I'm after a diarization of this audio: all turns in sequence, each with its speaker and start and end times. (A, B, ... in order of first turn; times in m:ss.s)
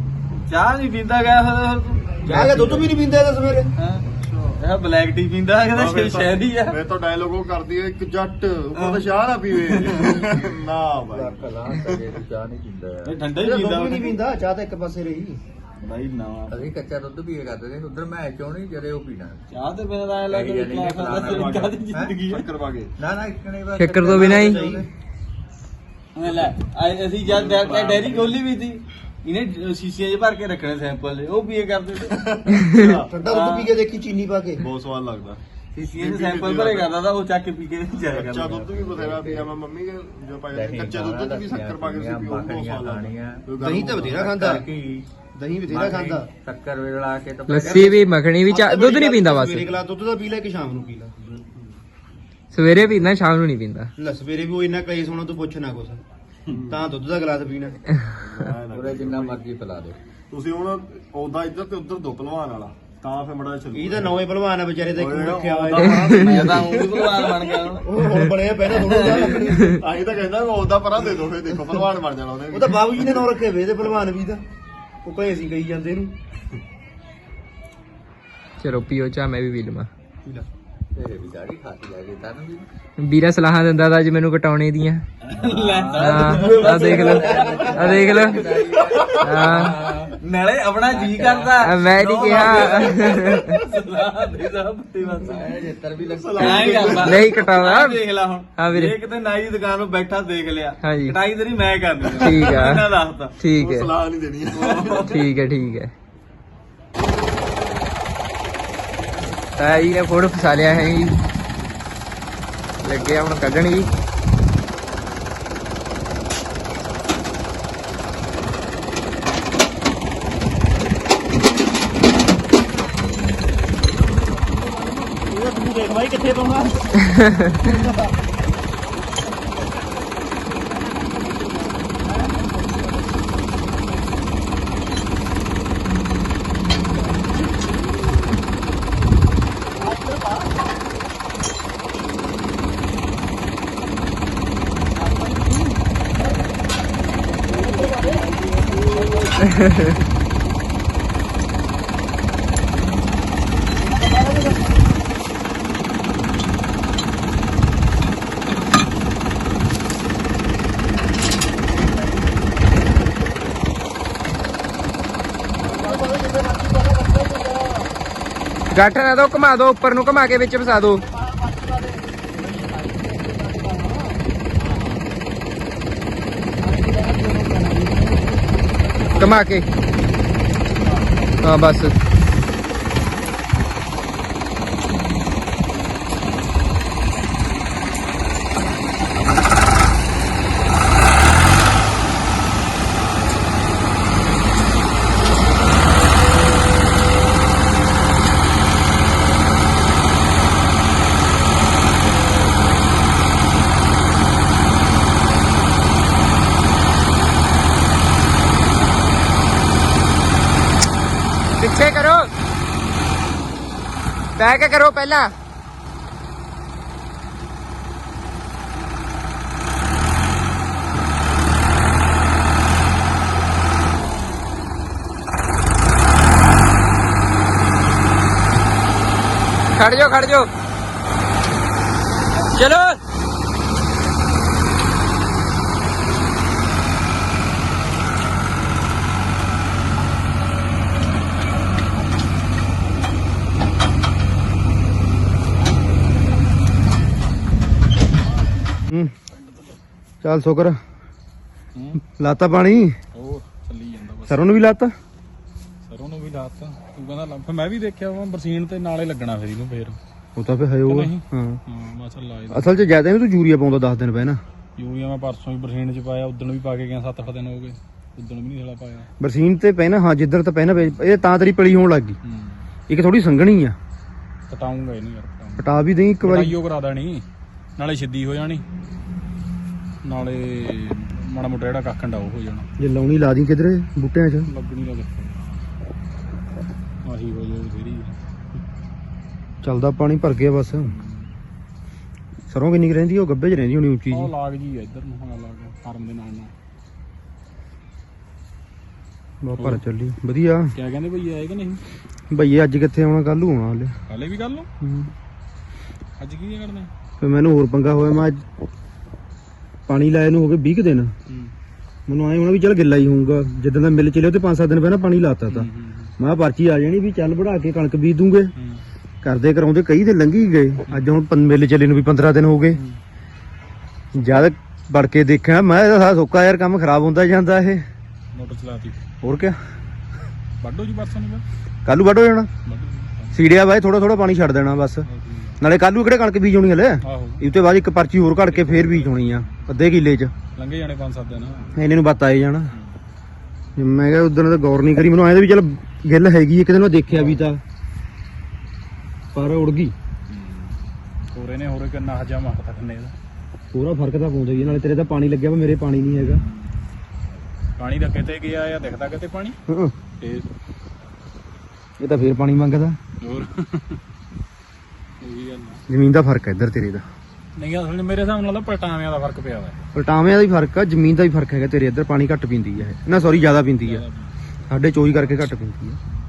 0:00.5-0:02.8 A
0:02.2-0:03.7 B
0:03.8-0:04.0 A
0:04.0-0:04.6 C
0:04.6-0:06.8 A
0:05.7-0:12.2 C
0:08.8-0:10.5 A
0:11.1-0:13.2 D
0:13.0-0:14.2 A
0:13.4-0:15.4 B
0:15.8-0:16.6 A
0:16.5-0:19.4 D
0:19.5-0:22.4 A
0:20.3-0:22.2 D
0:21.2-0:21.7 C
0:22.3-0:22.9 C
0:23.0-0:24.9 D
0:23.8-0:24.6 E
0:24.0-0:24.8 B
0:26.2-0:32.2 A
0:27.2-0:28.4 C
0:32.1-0:33.1 C
0:33.0-0:34.6 B
0:33.3-0:33.7 A
0:34.6-0:36.9 C
0:35.7-0:38.7 A
0:38.0-0:44.2 C
0:38.5-0:39.5 D
0:40.5-0:45.1 D
0:43.6-0:44.6 B
0:45.3-0:46.3 B
0:45.7-0:48.1 D
0:47.5-0:49.7 E
0:48.4-0:51.1 B
0:51.2-0:51.8 C
0:52.5-0:53.9 E
0:54.0-0:56.0 B
0:56.5-0:56.8 C
0:56.7-0:57.8 B
0:58.2-0:59.4 C
0:58.7-1:00.0 D
1:00.3-1:04.2 C
1:03.7-1:06.7 B
1:04.9-1:07.7 C
1:06.1-1:07.9 A
1:07.8-1:09.6 B
1:08.8-1:09.5 A
1:08.9-1:13.2 C
1:12.5-1:14.4 B
1:15.0-1:16.1 B
1:18.6-1:19.9 E
1:20.9-1:22.7 D
1:23.0-1:25.0 E
1:25.2-1:35.5 A
1:25.4-1:30.1 D
1:26.0-1:28.4 E
1:28.9-1:29.2 C
1:29.2-1:29.8 E
1:30.8-1:31.7 D
1:31.6-1:33.6 E
1:32.3-1:33.0 C
1:35.2-1:37.0 D
1:36.0-1:37.4 C
1:36.4-1:43.3 A
1:37.0-1:38.0 E
1:38.6-1:38.9 E
1:40.8-1:41.2 E
1:42.2-1:42.9 E
1:42.2-1:42.6 C
1:43.4-1:43.9 E
1:43.5-1:45.3 C
1:44.5-1:45.3 A
1:45.1-1:45.9 E
1:49.6-1:51.1 E
1:52.8-1:53.9 E
2:05.0-2:07.0 B
2:48.7-2:51.1 E
2:59.1-2:59.7 E
3:00.8-3:01.5 F
3:01.4-3:01.9 E
3:31.6-3:32.3 E
3:34.4-3:35.3 E
3:49.7-3:50.5 E
3:52.5-3:53.0 E
4:09.3-4:09.8 F
4:10.2-4:10.8 B
4:11.7-4:12.0 F
4:12.1-4:13.0 B
4:13.1-4:14.5 F
4:14.3-4:14.9 B
4:15.8-4:20.0 F
4:20.4-4:21.6 B
4:20.9-4:22.7 F
4:22.5-4:24.4 B
4:24.8-4:29.1 F
4:29.2-4:32.2 B
4:32.2-4:32.6 F
4:32.9-4:33.8 B
4:34.5-4:35.7 F
4:35.6-4:36.5 B
4:36.2-4:37.2 F
4:37.8-4:38.6 F
4:40.0-4:42.7 F
4:42.8-4:44.5 B
4:44.4-4:45.6 F
4:47.0-4:48.2 F
4:49.6-4:50.9 B
4:50.8-4:51.3 F
4:52.5-4:54.3 B
4:54.1-4:56.5 F
4:59.4-5:00.7 B
5:00.7-5:01.8 F
5:02.3-5:04.0 B
5:04.1-5:04.7 F
5:04.8-5:05.1 B
5:06.2-5:06.9 F
5:07.2-5:08.4 B
5:09.9-5:11.1 B
5:11.3-5:11.5 F
5:12.1-5:15.7 B
5:15.5-5:16.1 F
5:16.2-5:18.5 B
5:18.6-5:18.8 F
5:19.2-5:22.8 B
5:22.7-5:23.0 F
5:24.2-5:27.8 B
5:28.3-5:29.0 F
5:29.2-5:29.6 B
5:30.6-5:31.4 F
5:31.8-5:32.5 B
5:32.6-5:33.4 F
5:33.3-5:35.0 B
5:35.0-5:35.6 F
5:35.6-5:40.3 B
5:37.0-5:37.4 F
5:38.5-5:39.4 F
5:40.6-5:41.8 F
5:41.8-5:42.7 B
5:43.8-5:47.6 B
5:47.1-5:47.4 F
5:49.3-5:49.9 B
5:50.3-5:50.8 F
5:51.3-5:53.1 F
5:53.7-5:56.4 B
5:57.8-5:59.6 F
5:59.7-5:59.9 B
6:00.2-6:00.5 F
6:02.0-6:03.0 B
6:03.2-6:04.0 F
6:05.2-6:05.8 F
6:05.9-6:07.0 B
6:07.6-6:09.8 F
6:09.9-6:14.0 B
6:13.1-6:14.3 F
6:14.7-6:16.0 B